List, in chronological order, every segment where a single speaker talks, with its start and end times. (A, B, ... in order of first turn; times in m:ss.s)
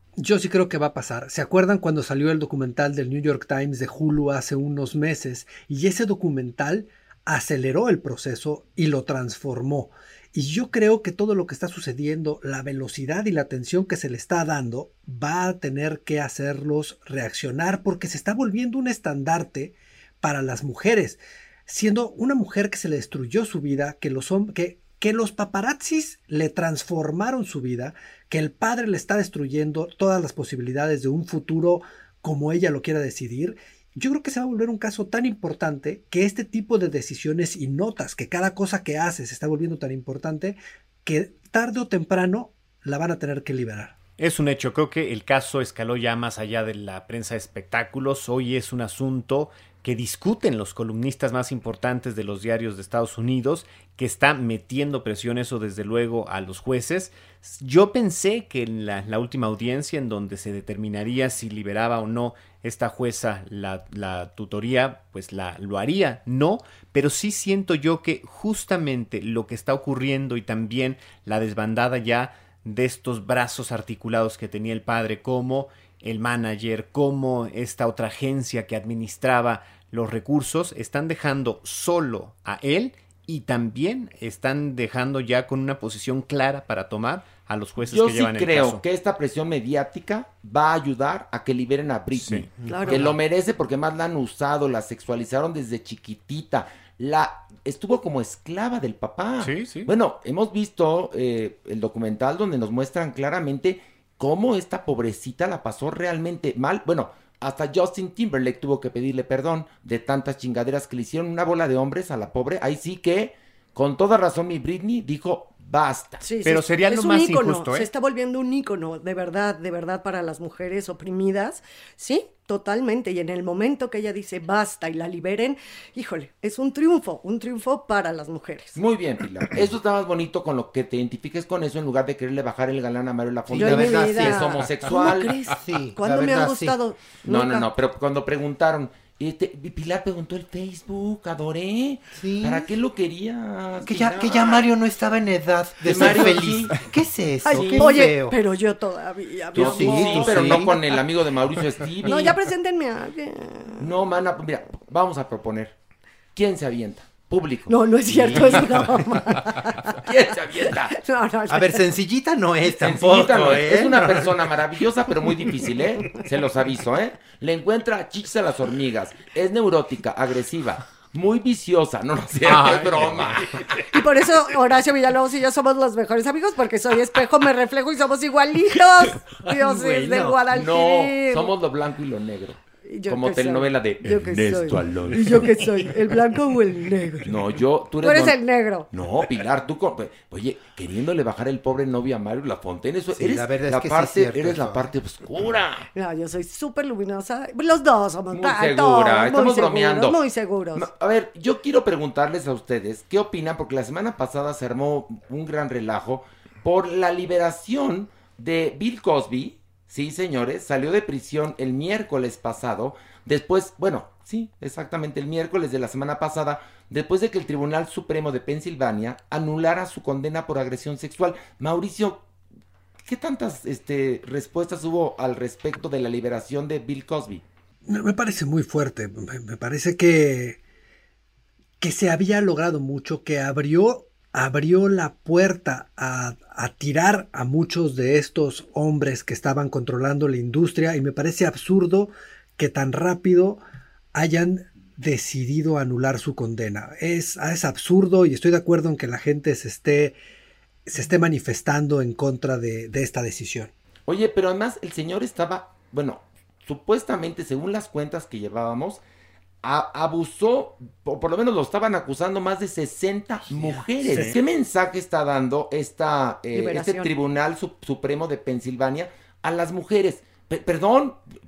0:00.2-0:44.0 A
0:44.2-1:28.8 B
1:27.8-1:56.2 C
1:32.1-1:33.1 B
1:32.7-1:33.0 D
1:39.4-1:39.9 B
1:56.2-2:08.8 D
1:56.4-1:57.9 B
2:08.8-2:15.3 C
2:13.5-2:16.8 E
2:13.5-2:17.7 D
2:17.3-2:24.7 C
2:22.1-2:22.7 E
2:23.8-2:28.4 E
2:25.8-2:26.9 C
2:27.4-2:30.8 D
2:27.6-2:27.9 C
2:29.5-2:32.4 C
2:29.6-2:30.7 E
2:32.0-2:33.8 D
2:33.8-2:35.7 C
2:36.4-2:38.8 C
2:37.7-2:40.0 D
2:40.0-2:41.0 C
2:40.9-2:41.9 D
2:41.5-2:44.4 E
2:42.8-2:53.6 C
2:52.5-2:53.1 B
2:52.6-2:52.9 E
2:53.9-3:01.5 D
2:59.5-3:00.4 E
3:00.5-3:05.5 C
3:02.9-3:07.3 D
3:07.2-3:08.4 C
3:08.0-3:08.9 D
3:08.9-3:15.9 C
3:13.1-3:14.9 E
3:15.9-3:20.9 D
3:18.3-3:20.2 C
3:20.8-3:42.2 C
3:43.1-3:47.4 C
3:47.9-3:50.6 A
3:51.8-4:03.6 A
4:04.1-4:10.2 A
4:10.9-4:13.7 A
4:14.1-4:19.0 C
4:19.6-4:31.2 C
4:24.0-4:24.4 B
4:26.5-4:27.1 D